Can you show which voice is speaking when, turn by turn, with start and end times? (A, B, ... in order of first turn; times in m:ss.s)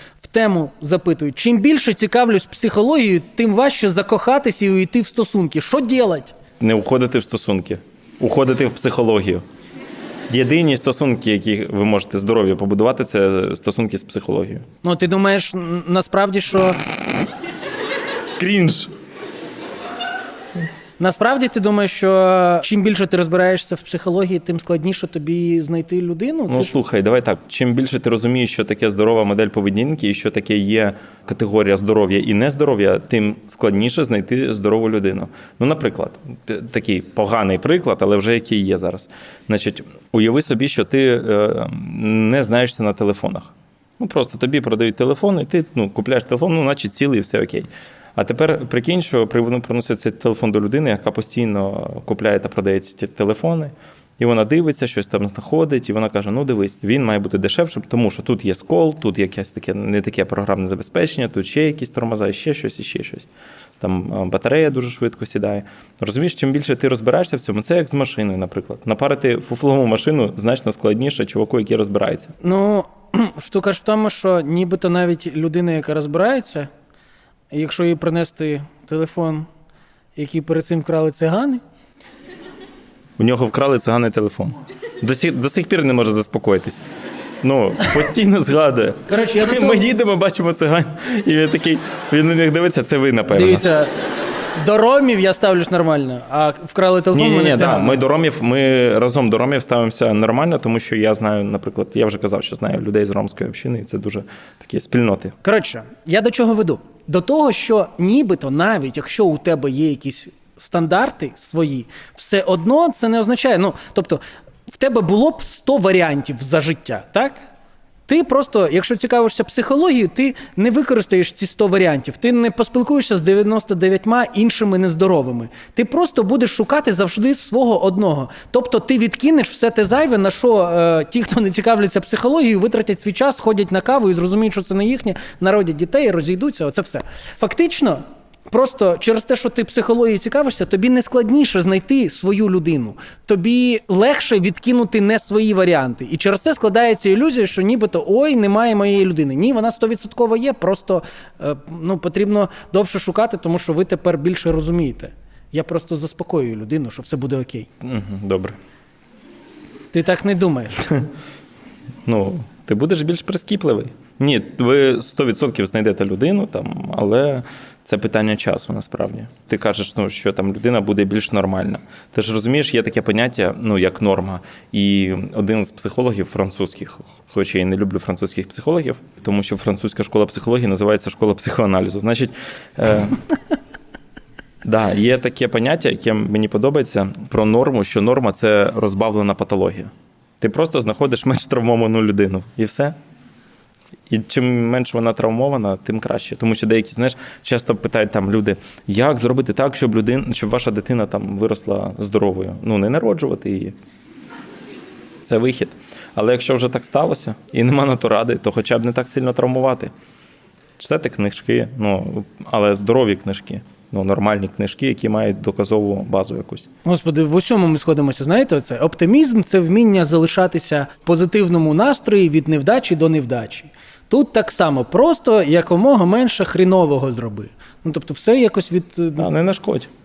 0:00.2-0:06.3 A
0:06.6-0:09.4 B
0:10.3-0:14.6 B
0:14.8-0:16.8 A
0:18.4-0:18.9 B
0:21.0-0:26.7 A
0:26.5-1:03.3 B
1:03.8-1:12.3 B
1:12.4-1:16.7 A
1:17.5-1:19.5 A
1:20.2-1:21.6 A
1:23.2-1:26.8 B
1:27.4-1:33.6 B
1:29.1-1:29.8 A
1:33.3-1:33.9 A
1:34.6-1:38.0 A
1:37.1-1:45.4 B
1:45.4-1:57.4 A
1:58.1-2:37.7 A
2:37.8-2:38.6 B
2:39.9-2:41.0 A
2:42.1-3:03.2 B
3:04.6-3:13.0 B
3:14.1-3:23.8 B
3:25.2-3:29.9 B
3:30.8-3:36.7 B
3:36.8-3:49.3 A
3:49.2-3:49.9 B